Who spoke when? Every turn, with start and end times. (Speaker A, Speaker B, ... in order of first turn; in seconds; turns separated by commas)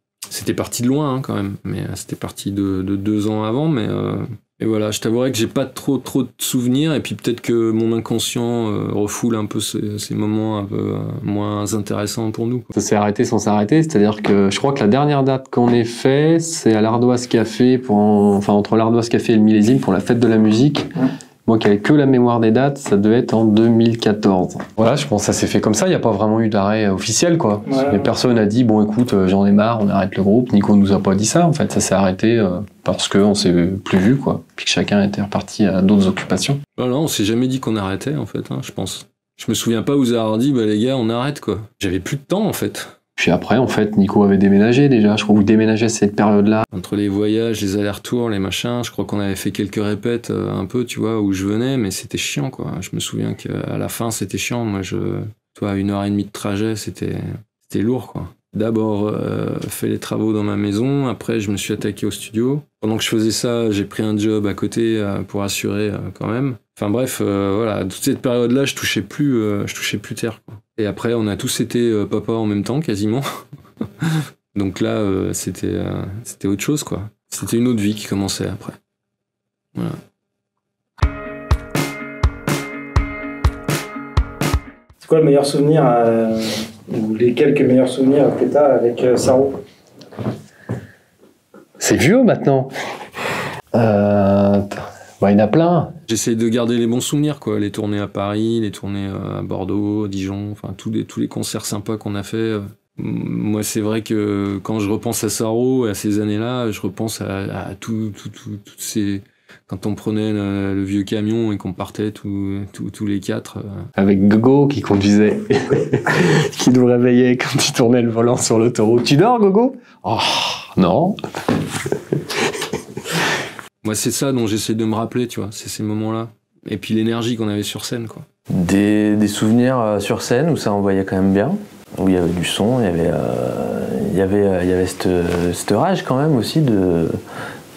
Speaker A: 0.3-12.7, Speaker B: 12.7-36.6, Speaker A: 36.8-43.0, Speaker B: 43.2-46.6, Speaker A: 46.7-73.2, Speaker A: 73.8-78.8, Speaker C: 85.0-89.5, Speaker B: 91.8-92.7, Speaker B: 93.7-96.0, Speaker A: 96.1-113.7, Speaker B: 114.0-123.3, Speaker A: 123.8-128.2, Speaker D: 128.5-137.2